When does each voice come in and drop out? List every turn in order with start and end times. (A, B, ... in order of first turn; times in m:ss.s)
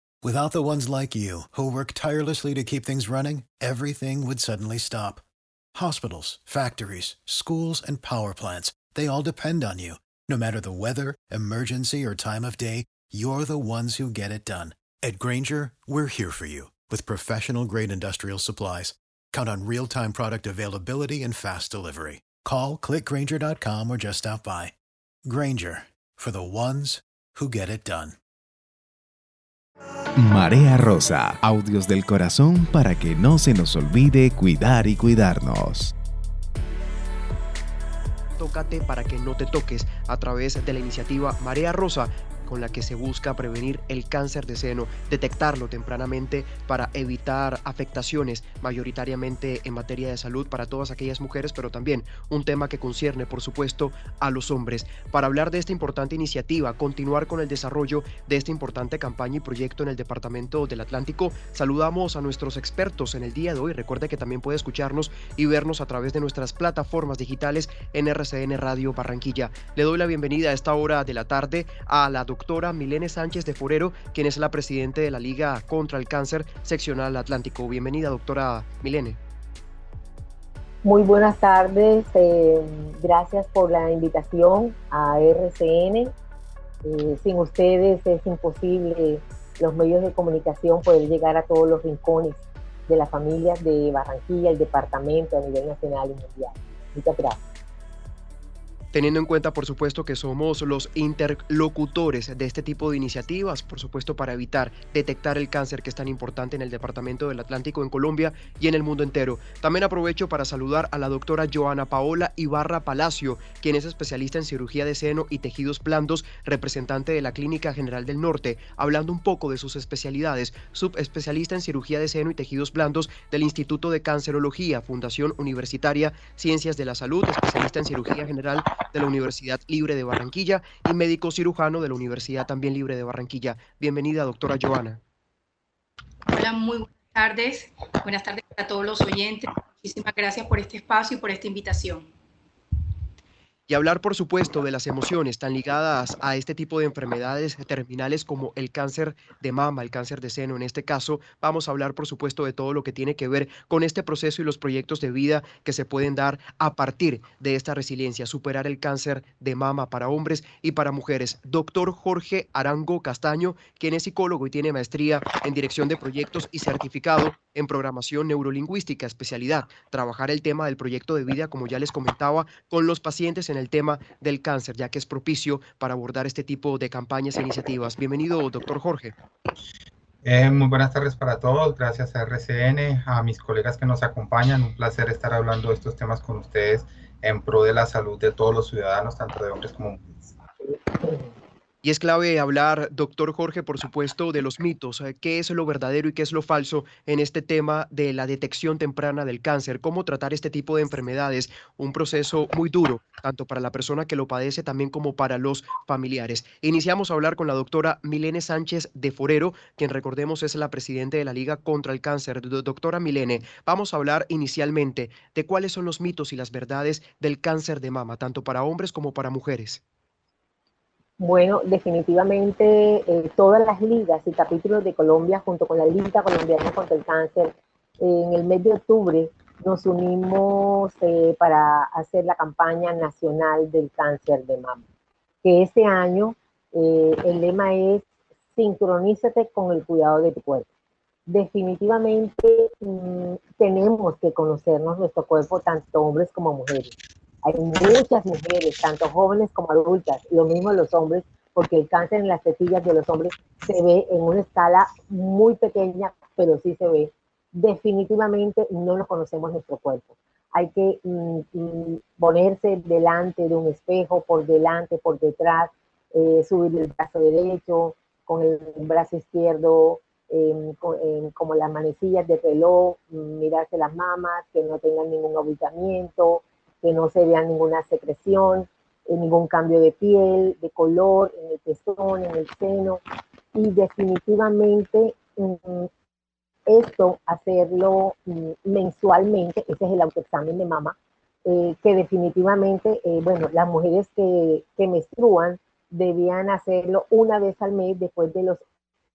0:00.2-0:05.2 A
0:05.7-0:24.7 A
0:25.2-0:28.2 A
0:30.2-0:35.9 B
0:38.4-1:19.2 C
1:20.8-1:26.1 D
1:26.8-1:37.4 D
1:38.9-2:15.0 C
2:16.3-2:22.1 E
2:23.7-2:59.1 C
3:00.2-3:10.3 F
3:11.0-3:11.3 D
3:11.8-3:39.8 C
3:41.2-3:54.8 D
3:55.4-4:00.7 D
4:01.3-4:43.0 D
4:43.5-4:45.9 D
4:46.7-4:50.9 D
4:51.4-4:58.6 D